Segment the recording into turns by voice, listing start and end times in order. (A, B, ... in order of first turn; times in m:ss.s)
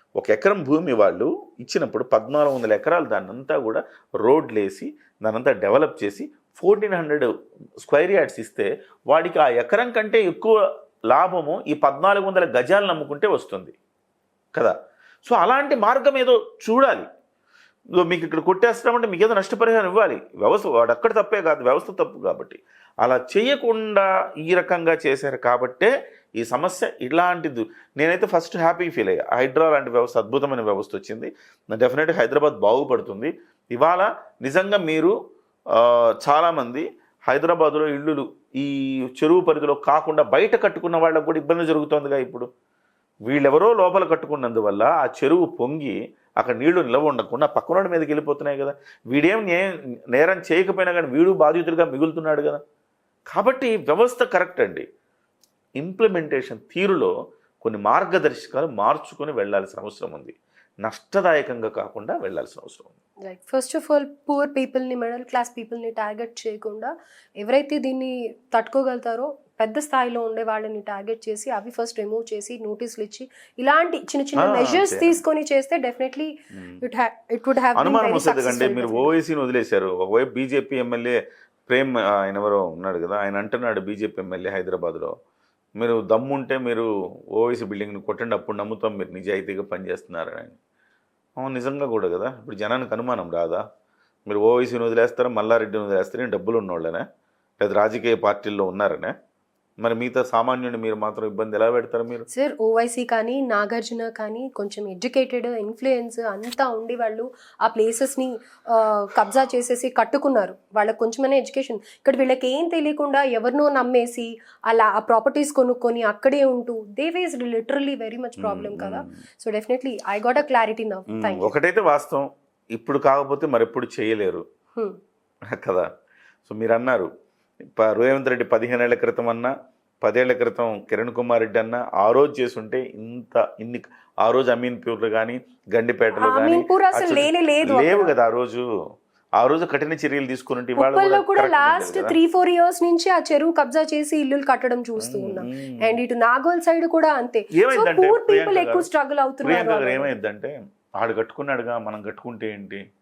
0:00.2-0:07.3 A
0:07.8-0:10.6 A
0:11.1-0:13.8 A
0:14.6-0:17.1 A
0:18.0-0:35.1 A
0:35.7-0:42.5 A
0:43.3-0:52.6 A
0:53.3-0:54.8 A
0:55.8-1:03.0 A
1:03.2-1:19.1 B
1:14.4-1:15.2 A
1:17.8-1:25.1 A
1:25.8-1:30.6 A
1:31.4-1:33.6 A
1:34.3-1:37.0 A
1:37.6-1:39.1 A
1:39.8-1:42.2 A
1:42.3-2:01.5 B
1:58.4-1:59.1 A
2:01.1-2:04.4 A
2:05.5-2:05.9 A
2:06.5-2:07.1 A
2:07.7-2:09.5 A
2:10.0-2:18.7 A
2:16.2-2:18.1 B
2:19.4-2:22.2 A
2:20.8-2:30.1 B
2:25.0-2:26.0 A
2:27.5-2:28.9 A
2:29.4-2:32.8 A